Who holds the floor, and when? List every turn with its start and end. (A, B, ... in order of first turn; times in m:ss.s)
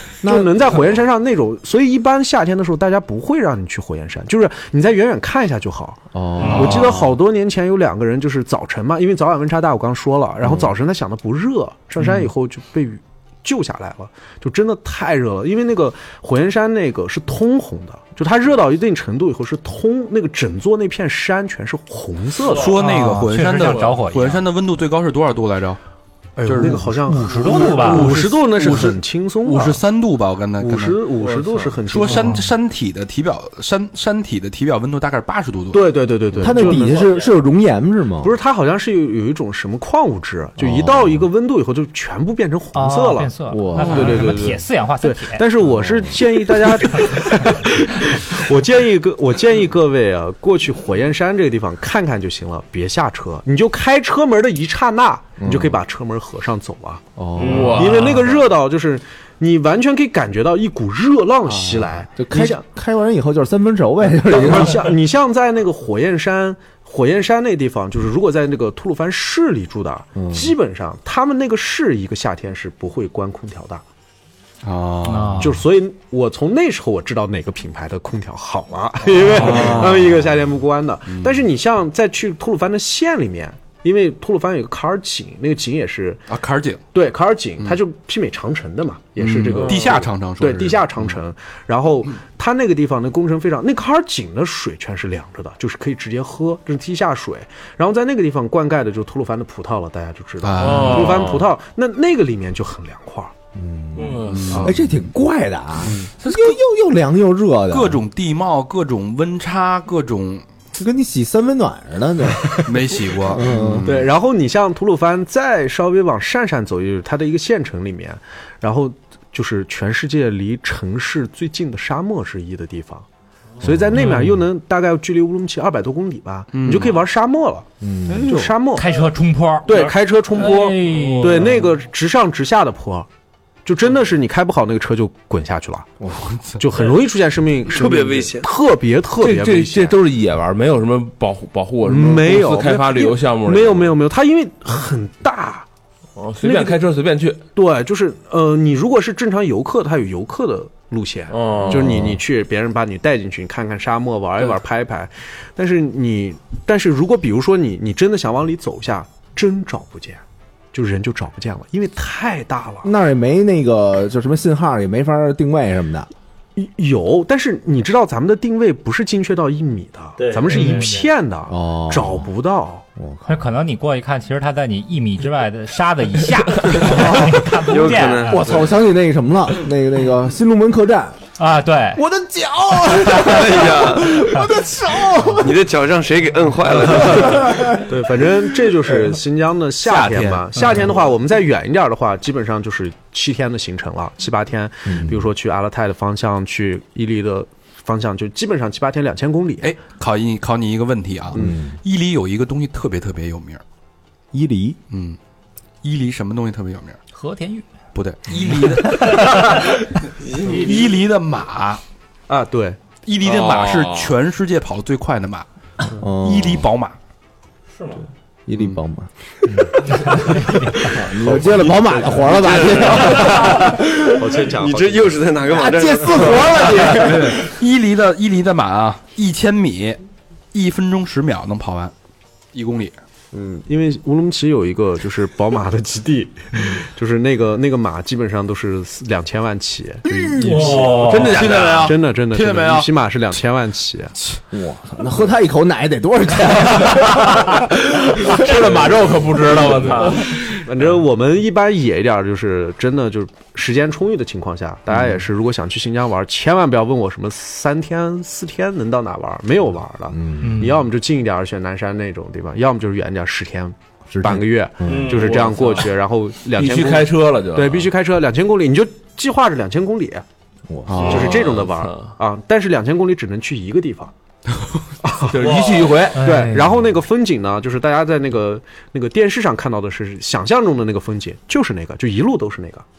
0:00.2-0:22.7 A
0:00.2-0:00.7 B
0:06.1-0:07.1 B
0:06.4-0:06.7 C
0:10.4-0:10.7 B
0:22.4-0:25.8 D
0:22.6-0:24.4 E
0:23.6-0:23.9 F
0:26.4-0:29.8 A
0:26.4-0:31.1 D
0:27.1-0:28.1 E
0:27.8-0:28.8 F
0:30.6-0:32.4 A
0:31.2-0:31.8 F
0:31.8-0:35.9 D
0:35.7-0:37.1 A
0:36.4-0:38.3 B
0:36.7-0:37.3 C
0:38.2-0:57.0 A
0:40.6-0:41.2 B
0:42.7-0:45.6 E
0:43.5-0:44.2 B
0:45.6-0:46.2 B
0:55.4-0:55.8 B
0:57.2-0:57.7 B
0:57.4-0:58.1 C
0:57.4-0:58.2 F
0:57.6-1:02.6 A
1:02.2-1:04.9 B
1:04.2-1:13.8 A
1:10.2-1:10.5 B
1:14.6-1:15.5 D
1:15.1-1:15.6 E
1:15.3-1:26.2 A
1:19.3-1:20.1 D
1:19.4-1:20.0 B
1:26.3-1:26.8 D
1:26.9-1:43.3 A
1:29.2-1:31.1 D
1:40.4-1:41.4 D
1:40.6-1:41.5 F
1:43.5-1:48.0 B
1:44.0-1:44.3 C
1:44.2-1:44.6 F
1:44.2-1:44.8 D
1:46.2-1:46.6 D
1:47.7-1:50.4 D
1:50.8-1:52.5 B
1:52.4-1:52.7 A
1:52.6-1:54.0 D
1:53.3-1:53.9 B
1:53.8-2:03.0 A
2:03.6-2:04.2 B
2:03.6-2:08.8 A
2:04.0-2:04.3 E
2:06.5-2:07.0 D
2:07.8-2:08.5 B
2:08.7-2:11.6 E
2:09.6-2:13.1 A
2:09.7-2:11.4 C
2:13.6-2:15.9 A
2:16.2-2:16.6 D
2:16.6-2:20.0 A
2:17.6-2:18.5 G
2:19.2-2:24.0 F
2:21.8-2:25.6 A
2:26.2-2:27.4 F
2:26.4-2:26.8 A
2:27.5-2:40.2 A
2:31.3-2:32.1 F
2:31.7-2:32.2 B
2:40.7-2:42.9 A
2:42.8-2:46.1 B
2:46.6-2:52.8 A
2:50.2-2:51.1 C
2:50.5-2:50.9 E
2:51.5-2:52.3 B
2:53.0-2:53.4 B
2:53.3-2:58.4 E
2:56.7-2:57.2 B
2:57.6-2:58.6 G
2:58.3-3:01.2 B
3:01.4-3:02.0 E
3:01.9-3:05.6 B
3:03.2-3:04.4 G
3:05.4-3:07.7 G
3:07.0-3:07.7 B
3:07.2-3:19.7 A
3:09.9-3:10.4 B
3:14.9-3:15.2 B
3:19.6-3:23.6 D
3:21.4-3:21.8 B
3:24.3-3:24.8 B
3:24.9-3:25.2 D
3:25.8-3:27.0 D
3:27.1-3:27.6 E
3:27.9-3:29.7 D
3:28.5-3:29.2 E
3:30.4-3:30.7 C
3:30.4-3:31.8 D
3:32.3-3:32.8 A
3:33.0-3:35.4 D
3:33.2-3:34.1 F
3:36.0-3:36.6 B
3:36.2-3:36.9 D
3:37.7-3:38.0 C
3:38.5-3:39.7 B
3:38.5-3:38.8 D
3:40.0-3:40.9 E
3:40.8-3:44.0 B
3:41.0-3:42.2 A
3:42.8-3:45.3 A
3:43.1-3:47.1 G
3:45.5-3:47.4 B
3:46.9-3:50.0 D
3:50.5-3:51.9 D
3:52.5-3:53.0 D
3:53.3-4:04.1 A
4:00.4-4:01.8 C
4:00.6-4:02.9 D
4:00.9-4:01.8 F
4:04.5-4:08.8 B
4:08.2-4:10.3 F
4:09.8-4:10.2 C
4:10.5-4:30.2 A
4:20.1-4:20.7 B
4:20.4-4:20.8 E
4:24.1-4:25.2 B
4:24.8-4:25.9 C
4:26.5-4:27.9 F
4:30.7-4:31.3 B
4:31.0-4:34.1 A
4:31.0-4:32.1 F
4:35.0-4:35.4 A
4:35.3-4:36.4 F
4:35.4-4:36.1 C
4:36.1-4:42.8 A
4:36.2-4:36.6 E